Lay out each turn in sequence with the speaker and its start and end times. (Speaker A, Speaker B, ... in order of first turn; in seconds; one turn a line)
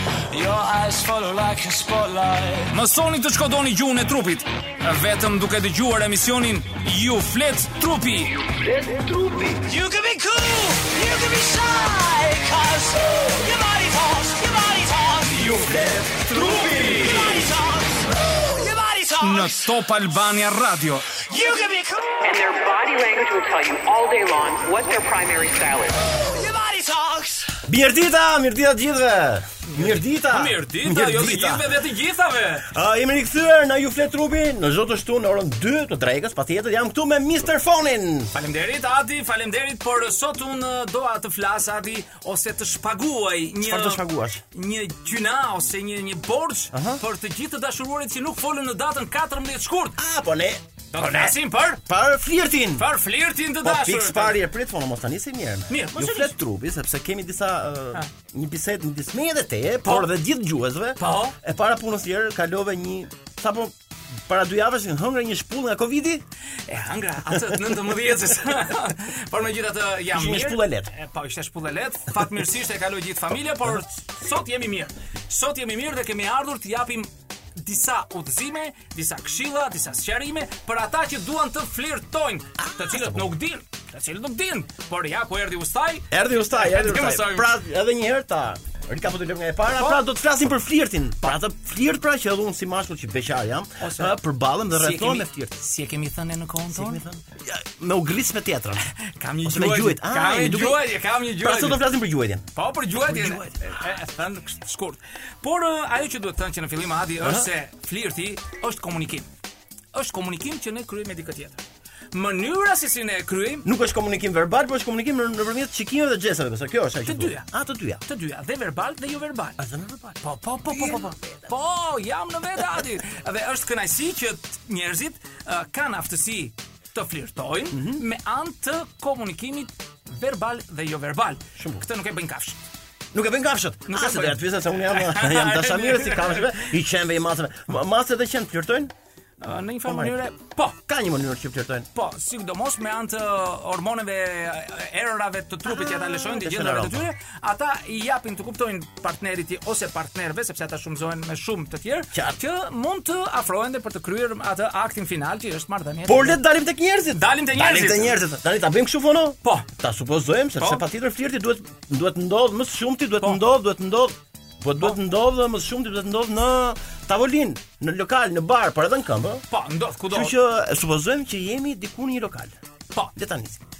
Speaker A: 0.3-2.7
Speaker B: 2.7-8.5
Speaker C: 8.8-9.6
Speaker A: 9.5-19.8
Speaker B: 19.2-21.1
Speaker A: 21.2-22.3
Speaker D: 22.2-25.9
Speaker A: 26.0-27.6
Speaker C: 27.6-31.8
Speaker B: 29.6-32.7
Speaker C: 32.7-38.3
Speaker B: 38.3-50.0
Speaker C: 43.6-44.4
Speaker C: 46.7-47.0
Speaker C: 50.0-52.9
Speaker B: 50.9-51.8
Speaker B: 52.8-54.4
Speaker C: 53.6-66.2
Speaker B: 55.7-56.4
Speaker B: 61.0-61.4
Speaker B: 66.7-87.5
Speaker C: 70.1-70.9
Speaker C: 82.8-83.3
Speaker C: 86.1-95.6
Speaker B: 89.7-90.0
Speaker B: 93.8-94.2
Speaker B: 94.7-97.0
Speaker C: 96.7-98.9
Speaker B: 98.9-101.8
Speaker C: 99.4-102.5
Speaker B: 102.5-109.3
Speaker C: 103.0-103.8
Speaker C: 107.2-107.5
Speaker B: 109.9-113.7
Speaker C: 113.6-118.0
Speaker B: 117.0-117.5
Speaker B: 118.0-119.6
Speaker C: 119.6-121.1
Speaker B: 120.2-132.7
Speaker C: 127.7-128.0
Speaker C: 131.6-131.8
Speaker C: 133.1-138.9
Speaker B: 133.9-136.7
Speaker B: 139.4-140.8
Speaker C: 139.9-140.1
Speaker C: 140.8-141.9
Speaker B: 141.9-156.4
Speaker C: 145.6-147.1
Speaker C: 152.1-152.4
Speaker C: 156.1-169.4
Speaker B: 157.1-158.2
Speaker B: 169.5-170.3
Speaker C: 170.1-172.5
Speaker C: 173.2-173.6